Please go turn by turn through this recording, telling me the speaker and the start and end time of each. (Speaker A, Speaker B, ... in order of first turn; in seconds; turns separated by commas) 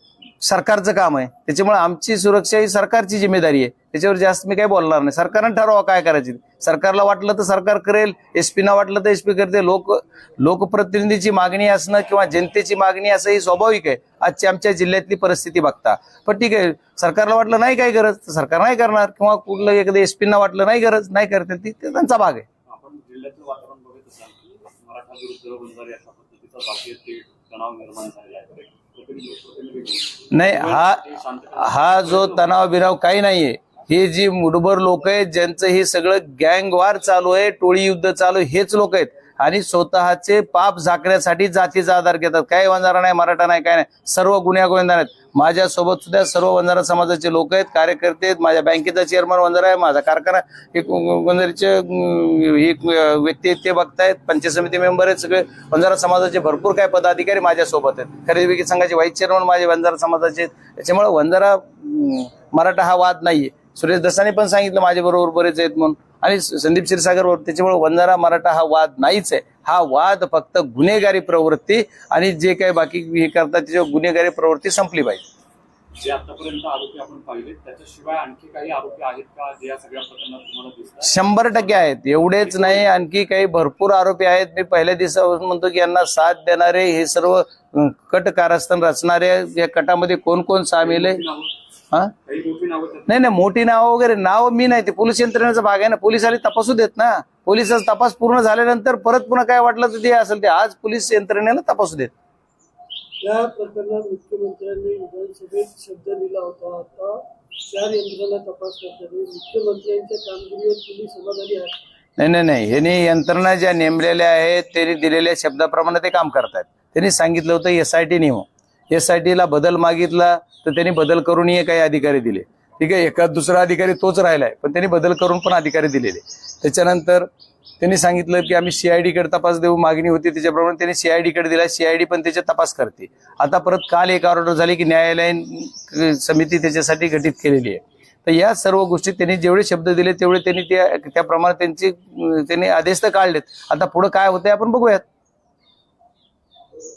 Speaker A: 0.4-22.5, Speaker B: 22.7-32.4, Speaker A: 30.3-31.0, Speaker A: 31.6-75.2, Speaker B: 76.0-81.2, Speaker A: 81.0-91.2, Speaker B: 82.4-82.9, Speaker B: 90.8-91.5, Speaker B: 92.3-93.1, Speaker A: 93.1-102.1, Speaker C: 103.2-111.8, Speaker A: 112.2-127.3, Speaker A: 127.8-145.0